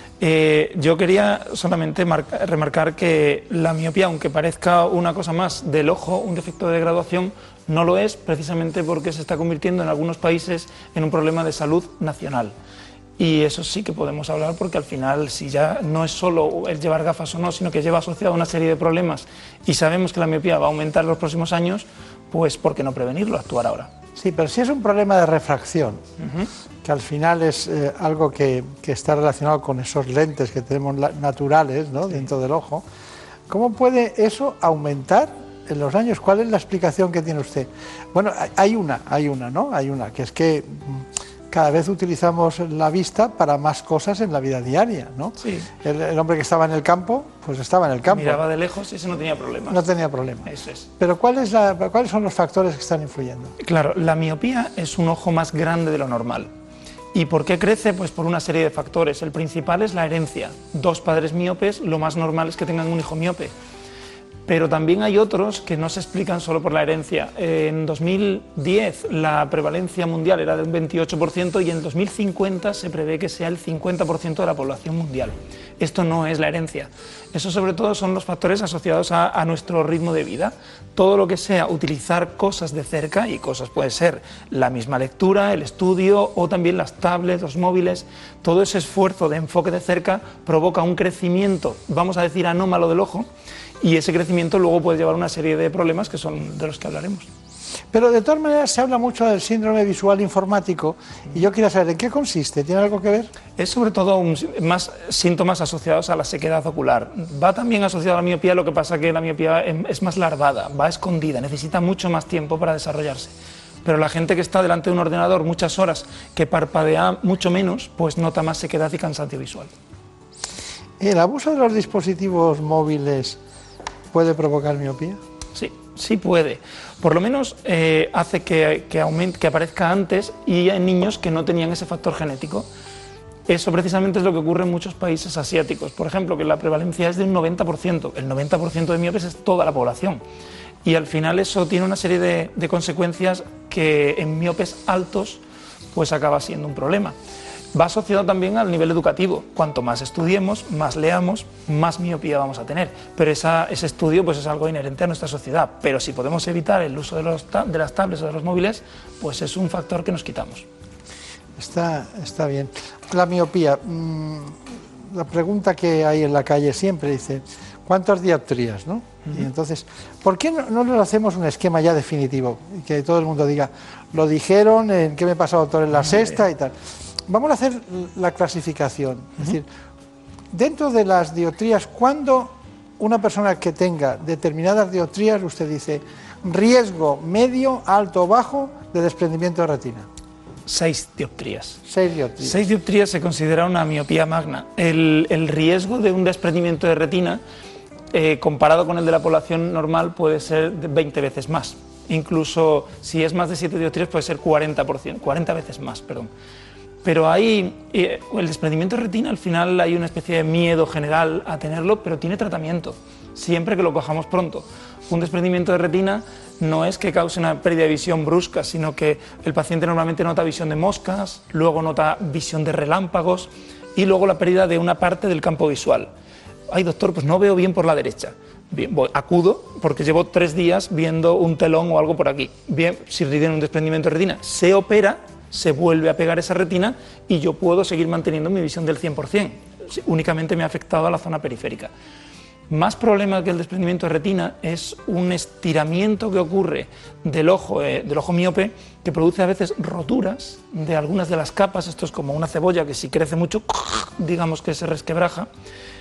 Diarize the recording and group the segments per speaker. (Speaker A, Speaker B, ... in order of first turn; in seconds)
Speaker A: 0.2-12.5, 13.2-23.9, 26.2-26.5, 45.4-45.7, 48.1-49.8, 50.4-50.9, 53.6-56.5, 57.1-63.5, 64.5-93.3, 93.8-97.3, 103.6-119.7, 125.5-132.7, 133.5-140.2, 140.8-145.4, 145.9-147.1, 147.7-160.7, 176.0-176.3, 190.7-191.8, 192.4-197.4, 198.1-206.3, 207.0-226.1, 226.7-241.9, 242.7-255.5
Speaker B: 24.1-26.0, 26.8-32.8, 33.5-48.4, 49.7-50.5, 51.0-53.5, 97.9-103.3, 121.0-123.4, 124.1-125.2, 161.6-176.7, 177.3-179.7, 180.5-190.1, 191.8-192.6